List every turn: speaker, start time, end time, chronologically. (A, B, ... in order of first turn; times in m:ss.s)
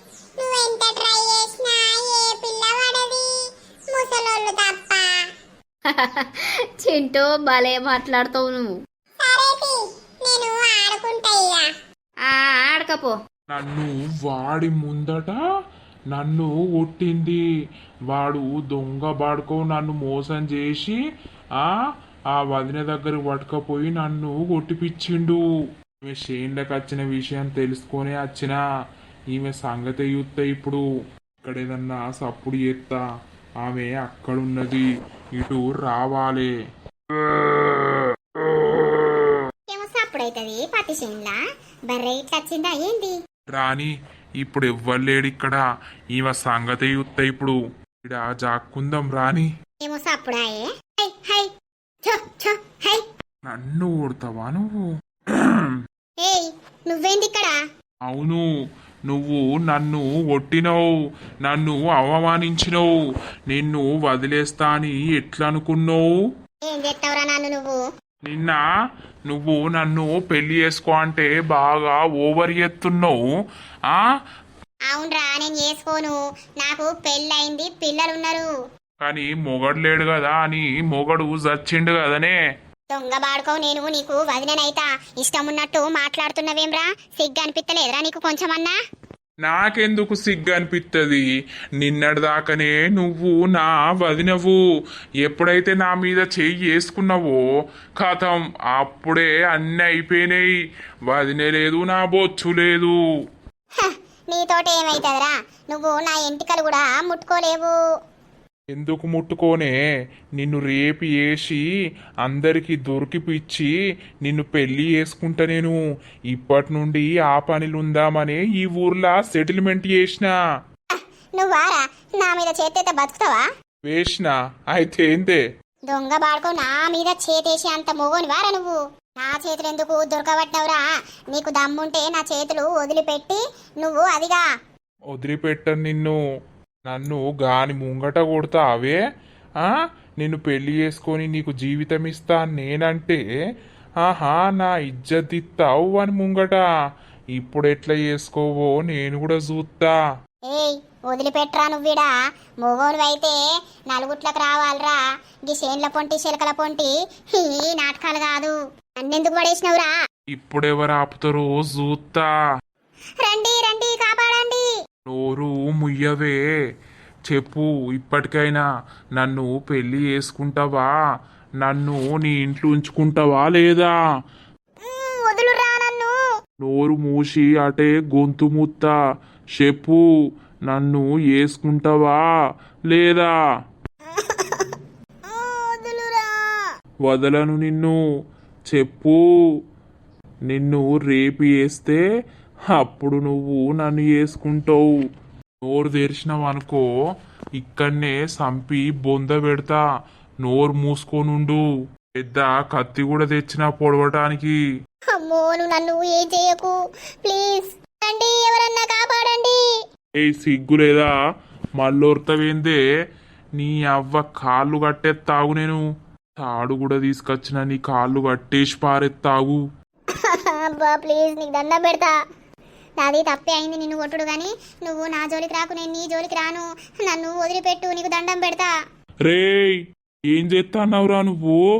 0:00.4-0:03.4 A
0:03.9-0:05.3 A
0:05.9-0:08.8 B
0:09.2-0:11.7 A
0:12.3-0:13.1 B
0:13.5-0:15.4 C
0:16.1-0:17.4 C
0:18.1-0:21.0 C
0:22.3-0:25.4 C
0:26.1-0:28.6 C
0:29.3-0:30.8 C
0:31.4-0:33.0 C
0:33.6-0:36.5 C
0:39.7-0:41.4 A
0:41.9-0:43.2 A
0:43.5-0:49.5 C
0:49.8-0:51.5 A
0:52.0-0:53.0 A
0:53.5-0:54.8 C
0:55.3-0:55.7 C
0:56.2-0:57.6 A
0:58.1-0:58.4 C
0:59.1-1:00.8 C
1:01.4-1:02.9 C
1:03.5-1:06.1 C
1:06.6-1:07.8 A
1:08.3-1:08.6 C
1:09.3-1:13.2 C
1:14.9-1:18.5 A
1:19.0-1:22.4 C
1:22.9-1:28.7 A
1:29.4-1:31.2 C
1:31.8-1:34.6 C
1:35.2-1:37.4 C
1:38.0-1:40.5 C
1:41.1-1:42.9 C
1:43.8-1:47.8 A
1:48.7-1:49.7 C
1:50.4-1:51.6 C
1:52.2-1:53.7 C
1:54.2-1:55.8 C
1:56.3-2:00.3 C
2:00.9-2:03.4 A
2:03.9-2:05.4 C
2:05.9-2:14.4 A
2:15.1-2:16.2 C
2:16.9-2:19.0 C
2:19.6-2:23.2 C
2:24.0-2:26.6 C
2:27.4-2:30.0 C
2:30.5-2:32.1 A
2:32.6-2:33.4 A
2:33.9-2:39.9 A
2:40.3-2:42.3 C
2:43.2-2:44.7 A
2:45.1-2:46.4 C
2:47.3-2:48.6 C
2:49.2-2:50.9 C
2:51.6-2:53.9 C
2:54.8-2:56.1 A
2:56.6-2:58.9 C
2:59.6-3:00.0 C
3:00.7-3:02.2 C
3:02.9-3:03.3 C
3:04.1-3:06.5 A
3:07.1-3:08.0 C
3:08.7-3:09.2 C
3:10.5-3:12.0 C
3:12.7-3:14.9 C
3:15.6-3:16.8 C
3:17.6-3:19.8 C
3:20.4-3:21.6 C
3:22.2-3:24.6 C
3:25.1-3:29.6 A
3:30.2-3:31.1 C
3:31.8-3:32.8 C
3:33.6-3:35.8 C
3:36.4-3:39.6 C
3:40.1-3:42.1 A
3:43.0-3:48.7 A
3:49.3-3:49.8 C
3:50.3-3:51.6 C